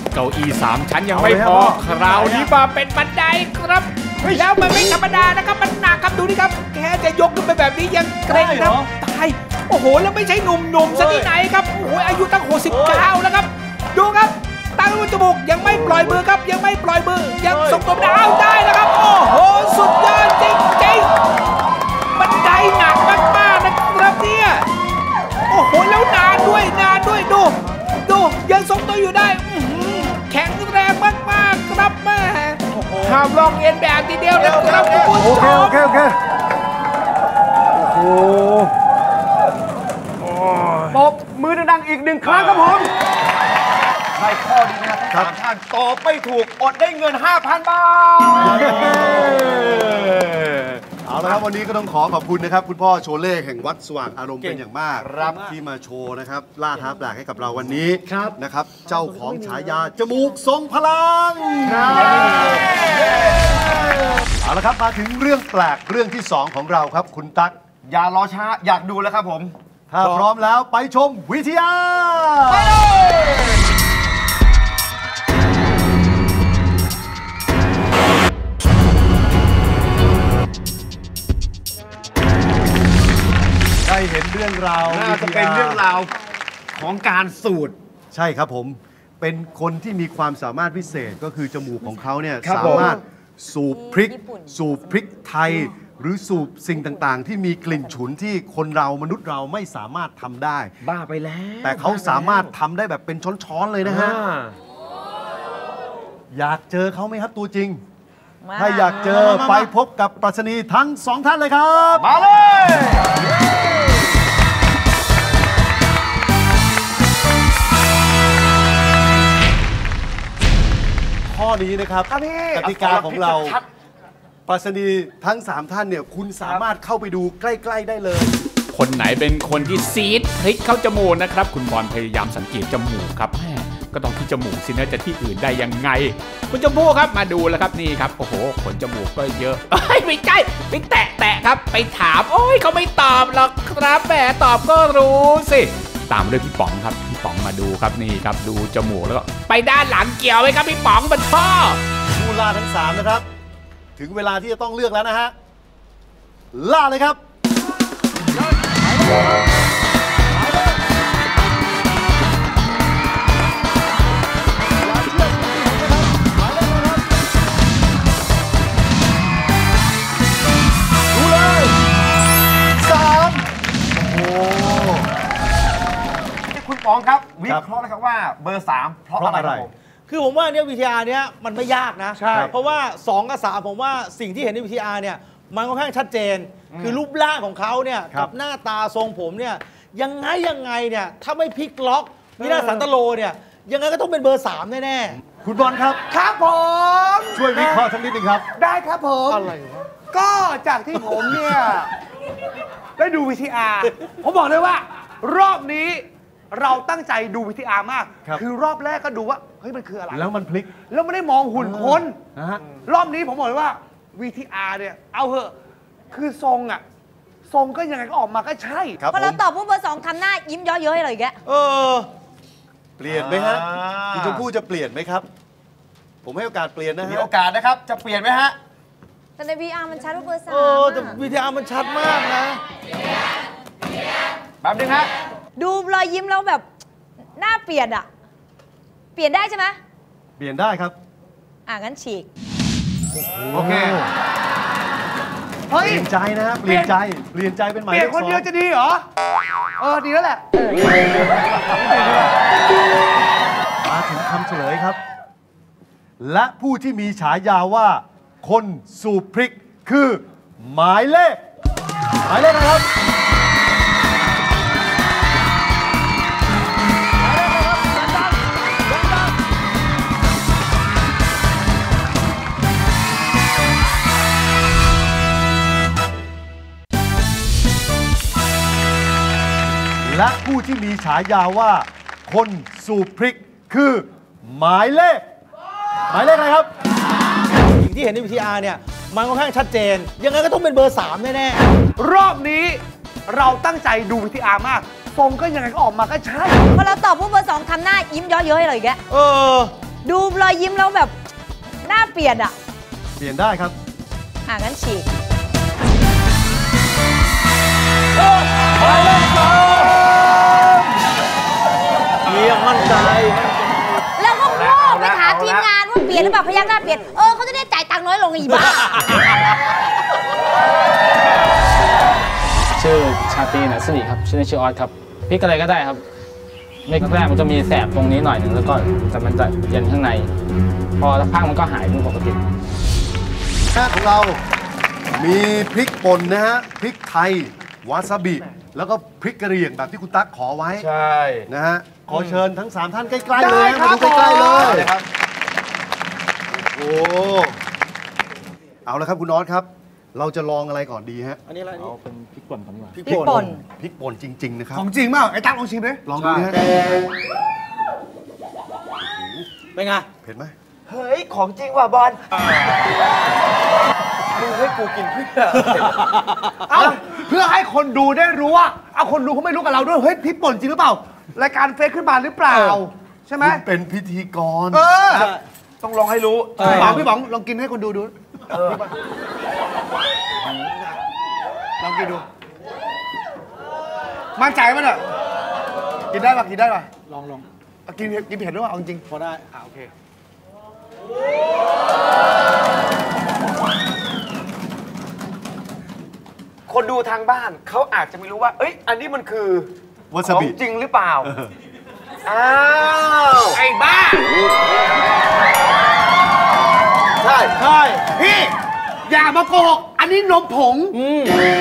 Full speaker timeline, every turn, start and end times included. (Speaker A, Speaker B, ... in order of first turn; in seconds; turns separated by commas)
Speaker A: 0.1-21.1, Speaker B: 1.1-2.5, Speaker C: 4.2-5.0, Speaker C: 8.3-8.9, Speaker C: 10.9-11.3, Speaker C: 12.7-13.1, Speaker C: 15.7-16.2, Speaker C: 17.4-18.2, Speaker A: 22.1-24.7, Speaker A: 25.5-36.0, Speaker C: 32.7-33.3, Speaker C: 34.4-35.2, Speaker B: 35.2-36.2, Speaker B: 37.8-38.7, Speaker B: 40.5-41.0, Speaker D: 40.9-42.9, Speaker D: 44.2-51.3, Speaker B: 45.1-45.4, Speaker B: 48.4-50.2, Speaker B: 51.0-62.6, Speaker D: 55.0-55.5, Speaker C: 61.7-62.7, Speaker D: 61.8-63.6, Speaker B: 63.4-67.5, Speaker D: 67.9-69.5, Speaker B: 69.9-72.9, Speaker C: 70.0-70.3, Speaker D: 72.5-73.6, Speaker B: 83.8-85.8, Speaker D: 84.9-86.1, Speaker D: 86.7-87.8, Speaker B: 88.1-100.7, Speaker D: 92.4-93.0, Speaker E: 93.7-94.6, Speaker D: 100.8-102.5, Speaker B: 101.6-104.2, Speaker D: 103.8-104.5, Speaker B: 106.3-107.8, Speaker E: 108.4-109.4, Speaker B: 108.5-112.1, Speaker C: 109.1-109.7, Speaker D: 112.0-113.2, Speaker B: 121.2-123.6, Speaker F: 122.1-122.7, Speaker D: 122.6-123.7, Speaker B: 124.5-128.3, Speaker A: 128.7-151.8, Speaker B: 152.1-153.2, Speaker B: 154.0-155.3, Speaker B: 156.5-157.2, Speaker C: 158.7-159.4, Speaker C: 160.4-160.8, Speaker C: 165.0-165.8, Speaker B: 165.5-167.0, Speaker B: 171.1-171.7, Speaker B: 172.8-175.1, Speaker D: 176.5-179.7, Speaker B: 179.2-179.7, Speaker C: 180.1-195.2, Speaker F: 182.1-182.5, Speaker D: 186.7-187.0, Speaker F: 192.4-192.9, Speaker B: 195.2-196.0, Speaker F: 196.1-197.8, Speaker B: 197.3-198.4, Speaker F: 198.6-201.9, Speaker F: 203.0-212.2, Speaker B: 210.1-210.7, Speaker B: 211.5-212.6, Speaker F: 212.8-215.5, Speaker F: 216.1-216.8, Speaker F: 217.5-219.0, Speaker B: 219.0-219.4, Speaker E: 219.1-221.4, Speaker C: 221.5-222.1, Speaker B: 223.0-225.2, Speaker D: 223.1-224.4, Speaker B: 226.2-227.3, Speaker D: 227.0-228.6, Speaker E: 229.4-231.2, Speaker C: 230.5-232.6, Speaker D: 234.6-235.1, Speaker E: 235.6-236.7, Speaker E: 237.4-238.1, Speaker E: 239.2-239.8, Speaker B: 240.4-241.0, Speaker E: 241.7-242.3, Speaker B: 243.2-244.1, Speaker D: 243.5-244.0, Speaker F: 245.7-246.1, Speaker B: 245.8-248.5, Speaker F: 246.7-246.9, Speaker F: 247.9-249.0, Speaker F: 249.8-250.5, Speaker F: 251.7-252.3, Speaker B: 253.8-255.0, Speaker B: 256.2-261.4, Speaker B: 262.2-262.9, Speaker C: 267.2-268.3, Speaker C: 268.9-269.3, Speaker B: 280.0-285.2, Speaker B: 286.1-286.7, Speaker C: 287.7-291.6, Speaker F: 292.0-296.7, Speaker E: 296.7-299.0, Speaker C: 299.1-299.7, Speaker E: 300.0-301.1, Speaker E: 301.8-302.6, Speaker B: 303.2-303.8, Speaker E: 304.5-305.1, Speaker C: 308.4-310.2, Speaker C: 312.2-314.0, Speaker E: 314.2-319.3, Speaker D: 314.4-315.7, Speaker G: 322.8-326.0, Speaker G: 326.9-330.3, Speaker G: 331.0-332.4, Speaker B: 333.7-334.4, Speaker B: 335.2-340.9, Speaker D: 340.8-341.5, Speaker B: 341.5-344.9, Speaker D: 343.4-345.0, Speaker F: 343.6-344.4, Speaker B: 346.5-347.6, Speaker B: 348.9-351.4, Speaker C: 351.5-352.0, Speaker G: 351.8-353.2, Speaker C: 352.9-353.6, Speaker E: 353.1-353.6, Speaker B: 353.3-354.9, Speaker F: 354.7-356.0, Speaker B: 356.1-356.6, Speaker D: 356.2-356.5, Speaker B: 359.0-359.5, Speaker C: 359.8-360.1, Speaker B: 360.2-360.5, Speaker D: 360.9-362.6, Speaker D: 364.3-366.1, Speaker C: 365.9-366.5, Speaker F: 366.7-373.6, Speaker D: 366.7-367.0, Speaker B: 373.4-375.0, Speaker F: 374.7-375.3, Speaker D: 375.1-377.0, Speaker C: 376.6-377.0, Speaker F: 376.6-378.9, Speaker D: 378.5-378.9, Speaker F: 381.8-382.2, Speaker F: 384.4-385.0, Speaker F: 386.1-386.9, Speaker C: 387.1-387.5, Speaker F: 387.9-389.9, Speaker C: 389.1-389.6, Speaker D: 396.7-399.7, Speaker B: 400.1-400.6, Speaker D: 400.2-401.3, Speaker B: 401.2-401.5, Speaker D: 402.2-403.6, Speaker F: 403.6-404.3, Speaker D: 407.2-407.5, Speaker C: 407.6-408.1, Speaker F: 408.1-408.5, Speaker F: 409.1-411.0, Speaker C: 410.9-411.3